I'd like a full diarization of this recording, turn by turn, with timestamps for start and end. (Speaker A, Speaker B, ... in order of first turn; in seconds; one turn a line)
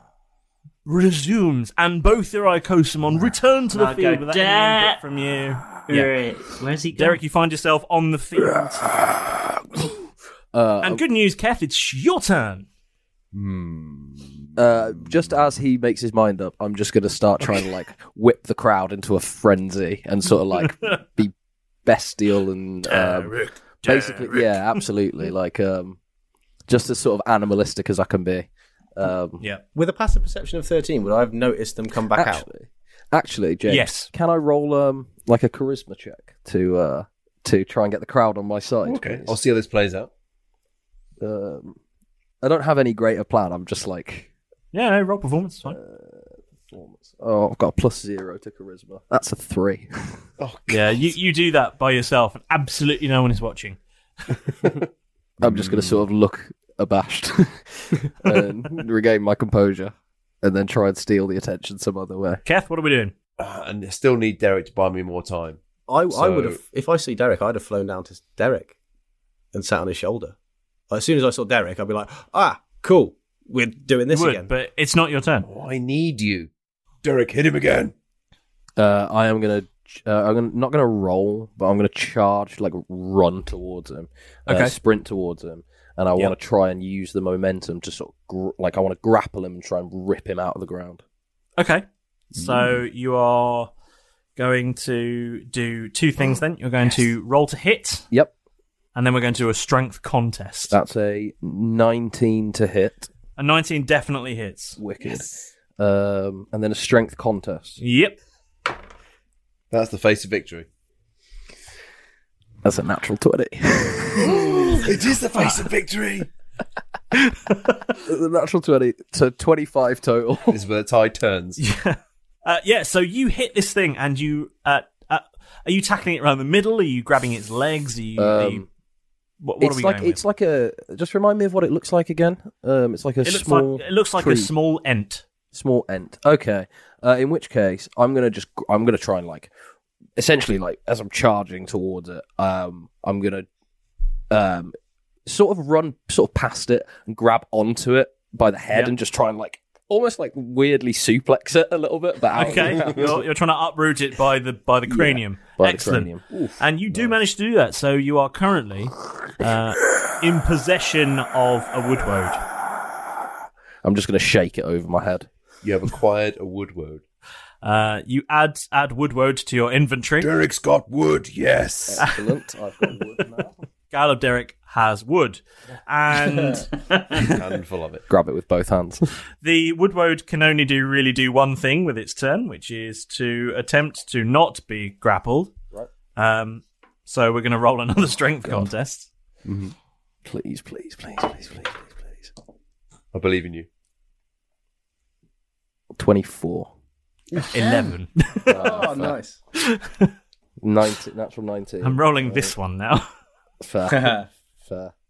Speaker A: 0.9-6.1
Speaker B: 3.7-5.0
Speaker B: 5.8-7.2
Speaker A: 6.9-8.9
Speaker C: 10.5-11.0
Speaker A: 10.8-12.7
Speaker D: 13.3-15.2
Speaker C: 14.6-21.3
Speaker C: 21.9-26.0
Speaker A: 22.8-24.8
Speaker C: 26.7-29.4
Speaker E: 29.8-32.5
Speaker C: 32.1-39.4
Speaker A: 33.7-34.1
Speaker D: 38.8-40.1
Speaker C: 41.2-41.8
Speaker C: 42.4-44.3
Speaker A: 44.7-45.8
Speaker C: 45.6-50.2
Speaker D: 50.4-51.0
Speaker A: 50.7-53.8
Speaker C: 55.4-62.4
Speaker D: 55.4-56.0
Speaker A: 62.5-63.1
Speaker D: 63.4-66.6
Speaker E: 65.9-68.7
Speaker E: 69.5-70.3
Speaker E: 70.9-74.5
Speaker A: 74.1-75.5
Speaker D: 75.4-76.5
Speaker D: 77.0-77.9
Speaker C: 78.8-91.0
Speaker A: 91.6-93.7
Speaker A: 94.4-98.1
Speaker A: 99.0-100.8
Speaker C: 100.7-103.1
Speaker A: 103.4-104.8
Speaker C: 104.8-107.8
Speaker A: 107.8-108.2
Speaker D: 109.7-110.7
Speaker C: 112.6-114.9
Speaker D: 114.2-116.3
Speaker A: 117.5-117.9
Speaker C: 118.0-120.6
Speaker D: 120.5-121.6
Speaker A: 121.6-128.6
Speaker C: 128.2-128.7
Speaker A: 129.4-130.2
Speaker C: 129.6-134.5
Speaker A: 133.2-135.3
Speaker C: 135.5-139.5
Speaker C: 140.2-143.5
Speaker C: 144.3-144.8
Speaker C: 145.3-153.2
Speaker A: 148.7-149.0
Speaker A: 152.4-162.4
Speaker C: 154.9-156.2
Speaker C: 163.8-165.3
Speaker D: 165.6-167.0
Speaker A: 167.6-170.3
Speaker D: 170.2-172.1
Speaker C: 171.9-173.6
Speaker A: 173.9-176.7
Speaker D: 177.1-178.1
Speaker C: 178.1-179.0
Speaker A: 179.4-185.5
Speaker A: 186.2-189.1
Speaker D: 189.4-189.7
Speaker C: 190.2-192.3
Speaker D: 193.1-193.7
Speaker C: 196.0-196.7
Speaker E: 197.3-197.9
Speaker A: 197.5-198.8
Speaker C: 198.5-199.2
Speaker E: 198.5-199.4
Speaker A: 199.6-200.1
Speaker C: 200.6-202.5
Speaker A: 201.8-203.1
Speaker C: 203.6-204.9
Speaker E: 203.9-204.3